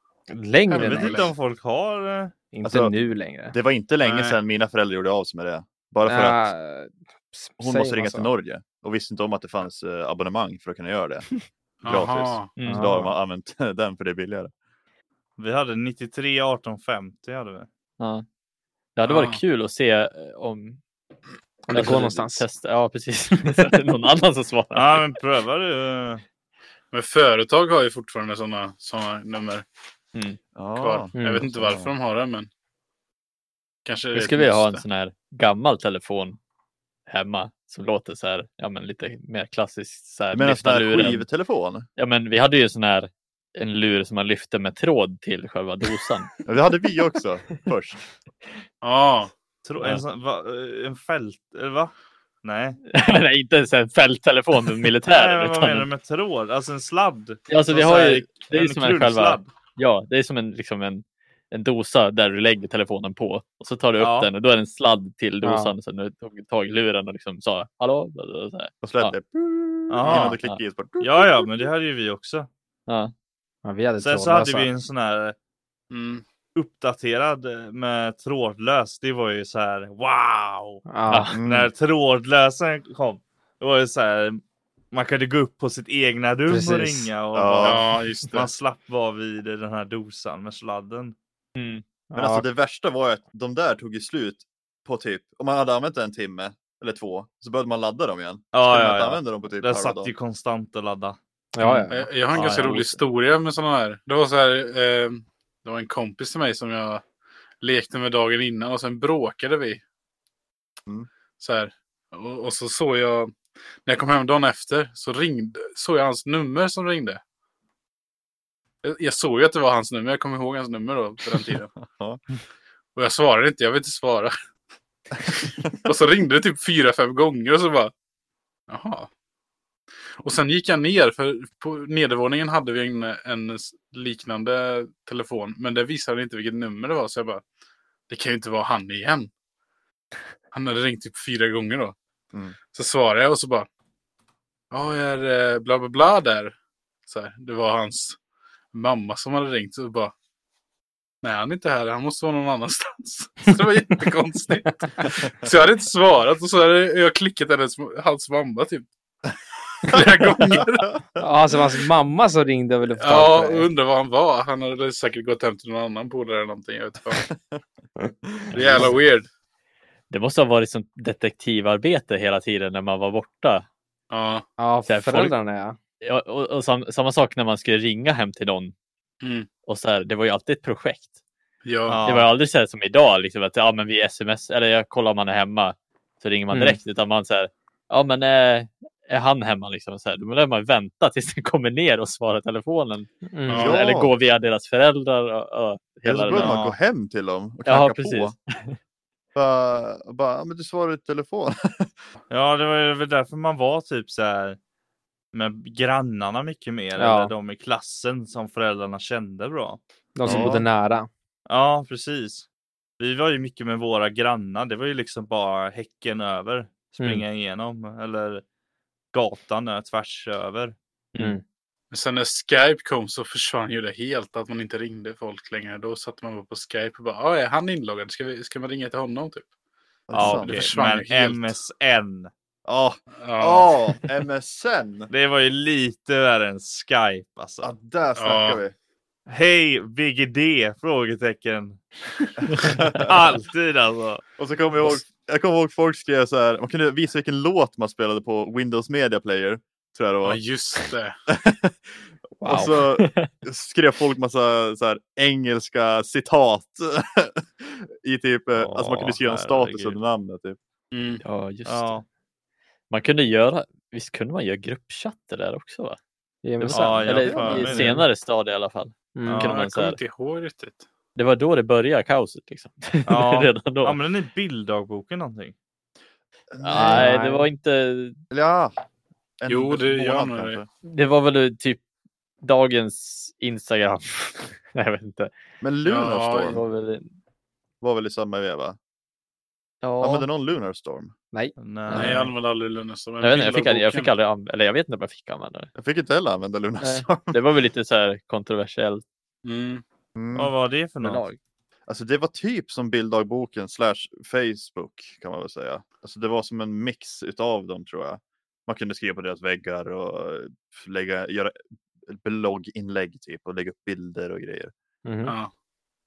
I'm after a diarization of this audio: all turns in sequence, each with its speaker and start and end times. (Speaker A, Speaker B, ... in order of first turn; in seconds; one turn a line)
Speaker A: 0.3-1.3
Speaker B: 0.7-1.3
Speaker C: 0.8-2.3
Speaker A: 2.5-3.5
Speaker D: 2.6-2.9
Speaker D: 3.5-6.5
Speaker B: 4.0-4.4
Speaker A: 6.0-8.3
Speaker D: 7.6-11.3
Speaker B: 11.8-12.6
Speaker D: 11.8-14.5
Speaker E: 12.6-12.9
Speaker A: 12.6-13.1
Speaker C: 15.4-17.7
Speaker E: 18.0-18.2
Speaker E: 18.9-20.8
Speaker B: 19.0-19.4
Speaker A: 21.7-22.4
Speaker E: 21.7-25.1
Speaker C: 24.7-26.2
Speaker B: 26.9-29.6
Speaker E: 30.1-30.4
Speaker D: 30.6-31.9
Speaker B: 30.8-32.5
Speaker A: 31.1-31.5
Speaker B: 33.8-34.8
Speaker E: 34.1-36.4
Speaker E: 37.1-41.2
Speaker D: 40.3-41.9
Speaker E: 42.0-46.3
Speaker D: 46.5-48.0
Speaker B: 48.8-49.3
Speaker C: 49.6-52.8
Speaker E: 52.9-55.9
Speaker C: 55.1-59.5
Speaker E: 57.5-69.1
Speaker C: 64.0-64.3
Speaker A: 65.4-65.7
Speaker D: 68.8-71.5
Speaker C: 69.9-70.4
Speaker C: 71.0-72.5
Speaker E: 72.9-73.1
Speaker A: 73.6-74.7
Speaker C: 74.0-75.3
Speaker B: 75.9-76.2
Speaker C: 76.5-80.8
Speaker A: 80.9-81.3
Speaker E: 81.1-81.3
Speaker D: 81.3-81.7
Speaker C: 81.4-91.1
Speaker A: 86.5-87.1
Speaker D: 87.3-87.8
Speaker B: 87.6-88.5
Speaker E: 91.5-91.8
Speaker A: 92.1-92.5
Speaker D: 92.1-100.1
Speaker C: 98.5-101.2
Speaker A: 101.5-102.1
Speaker E: 101.6-101.8
Speaker B: 101.9-107.0
Speaker C: 102.3-103.0
Speaker B: 107.6-109.8
Speaker B: 111.4-117.2
Speaker B: 118.8-121.7
Speaker D: 121.8-122.2
Speaker B: 122.9-124.3
Speaker B: 125.8-127.9
Speaker B: 128.7-129.1
Speaker B: 130.2-137.4
Speaker B: 138.1-139.3
Speaker B: 140.5-141.9
Speaker B: 142.7-143.7
Speaker B: 144.7-146.5
Speaker B: 147.1-148.2
Speaker B: 148.7-150.1
Speaker B: 151.2-158.9
Speaker B: 159.9-160.9
Speaker D: 160.5-161.2
Speaker A: 161.2-163.7
Speaker B: 163.0-167.3
Speaker D: 167.2-167.6
Speaker D: 168.1-168.9
Speaker B: 168.5-169.3
Speaker E: 168.5-168.9
Speaker E: 170.1-173.7
Speaker B: 174.1-174.4
Speaker A: 174.6-175.8
Speaker E: 174.9-175.3
Speaker E: 176.0-178.7
Speaker B: 179.2-179.5
Speaker E: 179.7-181.1
Speaker B: 181.6-182.0
Speaker C: 181.9-182.3
Speaker E: 182.0-196.6
Speaker A: 186.5-186.8
Speaker A: 193.3-193.7
Speaker B: 193.5-193.8
Speaker D: 193.6-194.1
Speaker D: 196.1-198.3
Speaker C: 196.3-196.8
Speaker E: 197.7-198.8
Speaker D: 199.3-202.0
Speaker C: 202.3-204.6
Speaker C: 205.3-209.8
Speaker A: 207.0-207.3
Speaker A: 210.1-211.1
Speaker D: 210.2-210.7
Speaker C: 211.5-212.5
Speaker C: 213.0-218.4
Speaker C: 219.1-220.8
Speaker A: 221.2-221.4
Speaker B: 221.9-229.5
Speaker D: 230.1-230.6
Speaker C: 230.1-232.3
Speaker B: 230.2-231.6
Speaker D: 232.6-235.1
Speaker B: 233.2-233.7
Speaker C: 235.1-237.7
Speaker D: 237.6-238.7
Speaker B: 238.2-238.6
Speaker C: 239.3-241.8
Speaker D: 242.4-243.1
Speaker C: 242.5-244.2
Speaker D: 244.4-250.4
Speaker B: 250.2-251.2
Speaker D: 251.3-260.6
Speaker E: 252.4-253.3
Speaker C: 258.6-260.0
Speaker B: 260.9-261.2
Speaker E: 261.2-261.9
Speaker C: 261.6-262.0
Speaker E: 262.9-266.0
Speaker A: 266.4-268.1
Speaker E: 266.6-270.0
Speaker C: 266.7-267.9
Speaker A: 269.1-269.4
Speaker C: 269.2-269.5
Speaker B: 269.4-270.8
Speaker E: 271.1-274.0
Speaker C: 273.1-275.5
Speaker D: 276.5-277.1
Speaker E: 276.6-278.2
Speaker A: 276.7-277.5
Speaker D: 278.3-278.7
Speaker D: 279.4-280.7
Speaker B: 279.5-280.6
Speaker E: 280.8-281.8
Speaker E: 282.4-285.3
Speaker D: 285.6-286.6
Speaker B: 285.9-286.6
Speaker E: 286.4-287.1
Speaker D: 287.8-288.8
Speaker E: 289.8-290.3
Speaker D: 290.0-291.1
Speaker A: 291.3-292.2
Speaker C: 291.6-292.3
Speaker B: 291.9-294.1
Speaker E: 293.2-295.7
Speaker D: 295.8-297.4
Speaker E: 296.8-299.0
Speaker B: 299.4-299.8
Speaker D: 300.1-300.5
Speaker C: 300.3-301.2
Speaker E: 301.0-301.4
Speaker D: 301.9-314.7
Speaker A: 315.0-315.3
Speaker B: 315.2-315.5